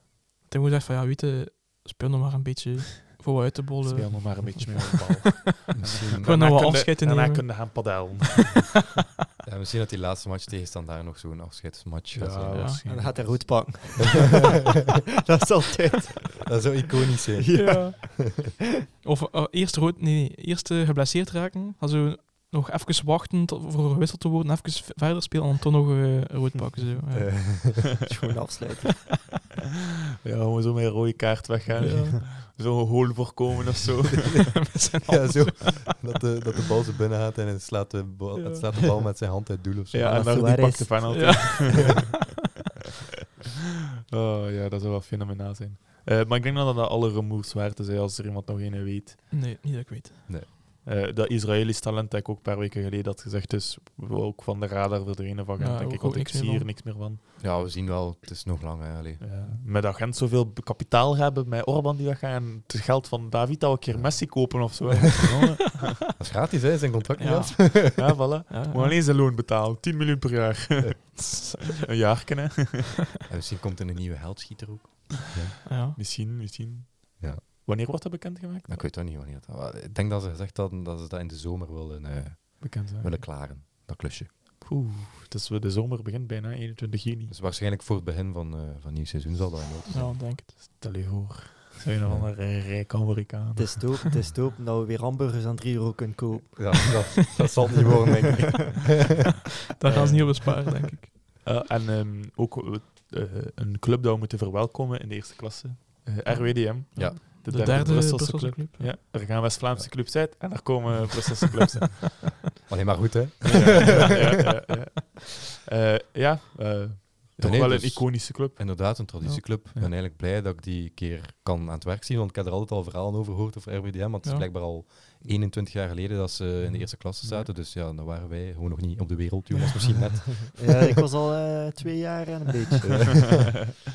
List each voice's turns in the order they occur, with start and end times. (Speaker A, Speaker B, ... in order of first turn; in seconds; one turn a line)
Speaker A: 0.4-5.0
Speaker B: 3.9-8.7
Speaker C: 5.7-6.7
Speaker A: 6.2-8.0
Speaker C: 9.4-12.9
Speaker B: 12.1-13.6
Speaker A: 12.5-12.8
Speaker D: 12.9-14.6
Speaker D: 15.3-16.7
Speaker C: 16.4-18.1
Speaker D: 17.4-18.5
Speaker A: 17.5-18.5
Speaker A: 19.0-27.4
Speaker C: 27.1-28.1
Speaker D: 28.1-29.1
Speaker B: 30.2-34.6
Speaker D: 31.8-32.1
Speaker A: 31.8-32.2
Speaker A: 34.7-35.8
Speaker C: 34.8-40.4
Speaker A: 38.4-38.7
Speaker B: 39.9-42.1
Speaker D: 40.0-41.4
Speaker A: 41.1-42.1
Speaker B: 44.1-49.2
Speaker A: 49.3-50.4
Speaker B: 50.9-57.2
Speaker A: 55.6-56.7
Speaker C: 57.4-59.3
Speaker B: 59.2-65.8
Speaker C: 63.9-64.9
Speaker C: 66.2-68.2
Speaker A: 67.2-69.0
Speaker B: 67.9-73.0
Speaker C: 73.3-75.5
Speaker A: 75.7-76.0
Speaker B: 76.0-78.9
Speaker C: 78.7-84.3
Speaker B: 82.6-83.3
Speaker B: 84.6-87.3
Speaker C: 87.3-90.2
Speaker A: 89.9-90.8
Speaker B: 90.5-93.9
Speaker C: 92.0-92.3
Speaker D: 93.5-96.9
Speaker C: 96.5-98.9
Speaker A: 99.8-101.1
Speaker B: 99.8-100.5
Speaker B: 101.4-112.2
Speaker A: 106.3-108.9
Speaker C: 112.7-114.2
Speaker B: 113.5-119.2
Speaker C: 117.4-130.7
Speaker A: 124.2-124.5
Speaker B: 126.6-127.5
Speaker D: 130.5-133.4